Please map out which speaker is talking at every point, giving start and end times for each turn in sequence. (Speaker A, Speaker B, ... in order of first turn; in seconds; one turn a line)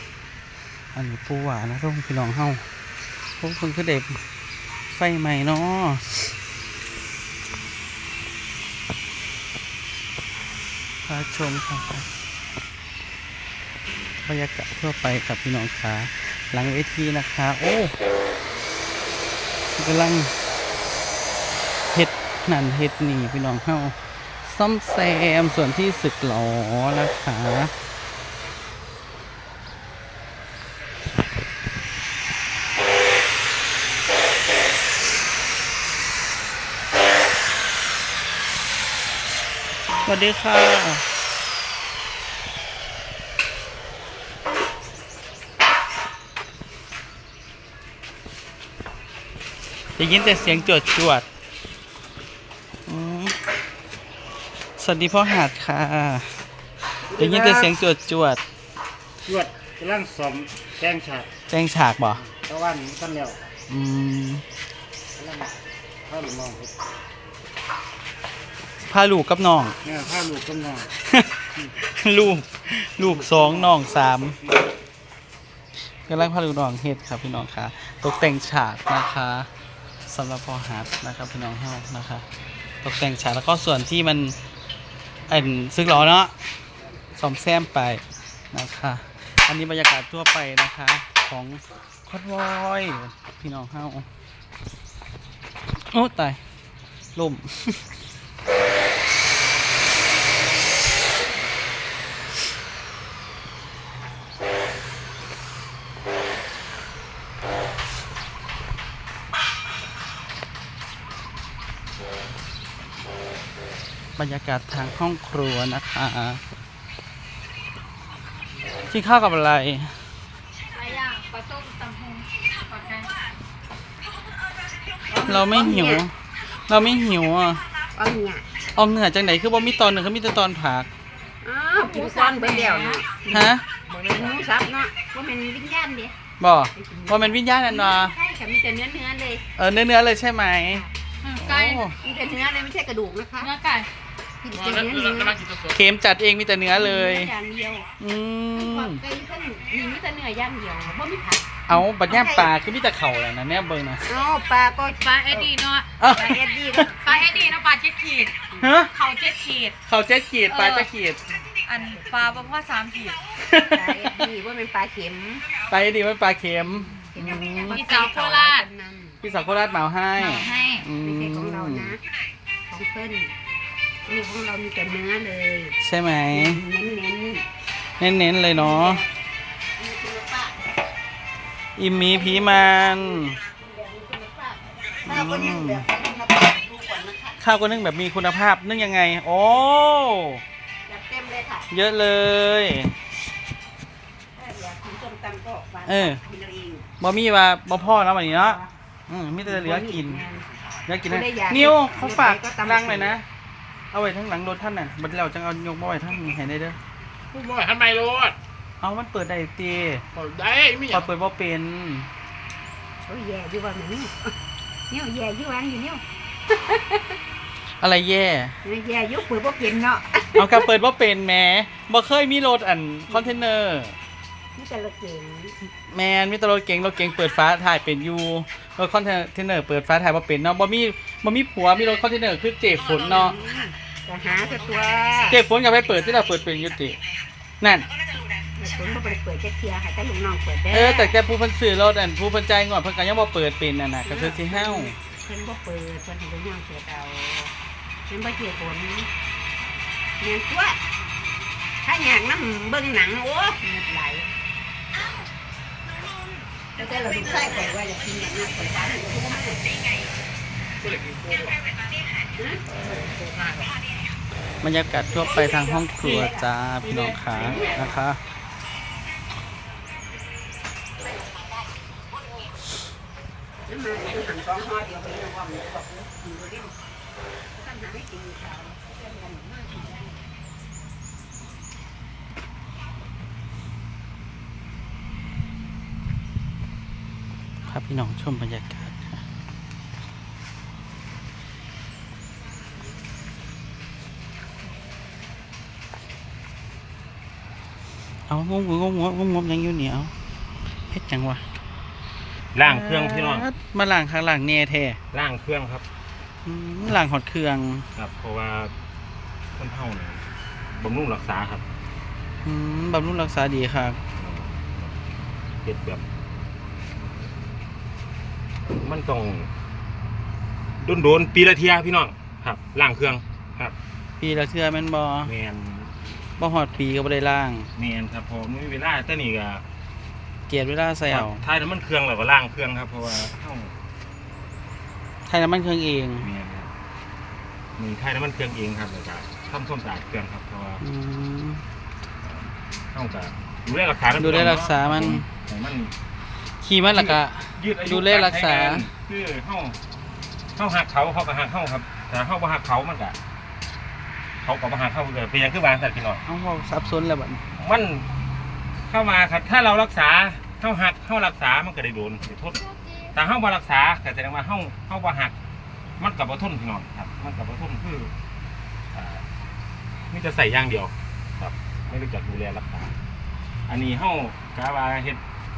Speaker A: 0.9-2.7
Speaker A: 3.4-4.2
Speaker A: 4.9-6.3
Speaker A: 11.1-12.1
Speaker A: 14.2-17.9
Speaker A: 19.7-20.4
Speaker A: 21.9-27.7
Speaker A: 40.0-41.1
Speaker A: 50.0-51.3
Speaker A: 52.9-53.4
Speaker A: 54.8-56.4
Speaker A: 57.1-58.4
Speaker B: 57.1-57.7
Speaker B: 59.2-61.3
Speaker A: 61.5-62.2
Speaker B: 62.3-63.5
Speaker A: 63.7-64.5
Speaker B: 65.2-66.7
Speaker A: 68.9-69.8
Speaker B: 69.8-70.9
Speaker A: 71.0-74.4
Speaker A: 76.1-79.5
Speaker A: 80.1-82.2
Speaker A: 82.8-84.4
Speaker A: 85.3-86.3
Speaker A: 87.2-94.1
Speaker A: 95.8-96.4
Speaker A: 97.2-97.8
Speaker A: 114.2-116.4
Speaker A: 118.9-120.0
Speaker C: 120.7-123.1
Speaker D: 125.1-126.0
Speaker A: 125.2-127.6
Speaker D: 127.9-128.4
Speaker A: 128.8-130.9
Speaker D: 131.4-136.2
Speaker C: 131.8-133.0
Speaker A: 133.3-133.6
Speaker A: 136.4-138.2
Speaker D: 136.8-139.4
Speaker A: 139.6-140.8
Speaker C: 141.2-141.9
Speaker A: 141.4-141.9
Speaker D: 142.0-143.5
Speaker C: 143.4-143.9
Speaker D: 144.4-145.4
Speaker B: 144.5-145.8
Speaker A: 145.7-147.3
Speaker D: 146.7-147.9
Speaker A: 148.0-149.0
Speaker D: 148.5-151.5
Speaker A: 151.7-154.1
Speaker D: 152.1-152.5
Speaker D: 154.1-155.5
Speaker C: 155.1-156.0
Speaker A: 156.0-156.9
Speaker D: 156.1-157.5
Speaker C: 156.9-159.8
Speaker A: 158.6-158.9
Speaker A: 159.8-161.2
Speaker C: 160.5-160.9
Speaker C: 161.6-163.4
Speaker D: 161.7-162.5
Speaker A: 163.4-164.1
Speaker D: 163.5-165.5
Speaker A: 165.7-167.8
Speaker D: 167.1-169.2
Speaker C: 167.5-168.7
Speaker A: 169.2-172.0
Speaker C: 170.2-170.9
Speaker D: 170.9-172.0
Speaker D: 172.7-173.3
Speaker D: 174.1-175.8
Speaker A: 175.8-176.6
Speaker D: 176.3-177.5
Speaker A: 178.0-179.1
Speaker D: 178.5-179.0
Speaker D: 179.8-180.6
Speaker A: 181.8-183.4
Speaker D: 182.0-187.4
Speaker A: 185.1-185.8
Speaker A: 187.4-190.4
Speaker D: 190.9-191.7
Speaker A: 191.7-192.9
Speaker D: 194.3-196.9
Speaker A: 195.9-196.2
Speaker A: 197.0-200.2
Speaker D: 199.4-200.5
Speaker A: 200.9-203.2
Speaker D: 201.1-203.2
Speaker A: 203.9-206.8
Speaker B: 207.3-208.4
Speaker A: 208.8-210.0
Speaker B: 210.2-211.1
Speaker A: 210.9-212.1
Speaker D: 213.1-214.3
Speaker D: 214.9-217.0
Speaker A: 217.8-218.6
Speaker D: 218.6-220.7
Speaker A: 220.4-223.9
Speaker D: 223.1-223.3
Speaker D: 224.6-225.6
Speaker A: 225.9-233.4
Speaker D: 233.0-235.4
Speaker A: 235.3-237.0
Speaker A: 237.6-237.9
Speaker D: 238.6-241.1
Speaker A: 240.7-245.0
Speaker D: 244.1-247.5
Speaker D: 248.1-249.1
Speaker D: 250.2-250.8
Speaker D: 251.8-254.3
Speaker D: 256.8-259.6
Speaker B: 260.8-261.6
Speaker D: 262.4-262.6
Speaker B: 262.9-263.7
Speaker A: 264.6-268.2
Speaker D: 265.3-266.3
Speaker B: 266.9-267.3
Speaker D: 267.5-267.9
Speaker D: 273.7-276.8
Speaker D: 277.6-280.1
Speaker A: 287.7-289.2
Speaker A: 298.3-300.1
Speaker A: 300.9-301.4
Speaker E: 302.5-303.5
Speaker A: 302.6-305.0
Speaker E: 305.1-305.8
Speaker A: 306.4-307.9
Speaker E: 307.9-308.7
Speaker E: 309.5-311.6
Speaker A: 312.4-314.0
Speaker E: 314.2-315.0
Speaker E: 315.6-316.0
Speaker E: 318.8-319.5
Speaker E: 320.8-323.8
Speaker A: 324.2-325.3
Speaker E: 325.2-326.0
Speaker A: 326.4-327.7
Speaker E: 327.8-329.6
Speaker A: 330.5-331.4
Speaker E: 331.1-333.7
Speaker A: 335.3-336.3
Speaker E: 336.2-336.7
Speaker E: 337.8-340.8
Speaker A: 340.8-341.6
Speaker E: 342.2-345.9
Speaker A: 344.2-345.3
Speaker A: 346.6-348.9
Speaker E: 346.9-349.8
Speaker E: 350.6-353.2
Speaker E: 354.4-356.2
Speaker A: 356.2-357.4
Speaker E: 357.6-358.1
Speaker E: 358.8-365.3
Speaker E: 366.0-368.1
Speaker E: 368.9-369.2
Speaker E: 370.1-372.9
Speaker E: 373.7-375.2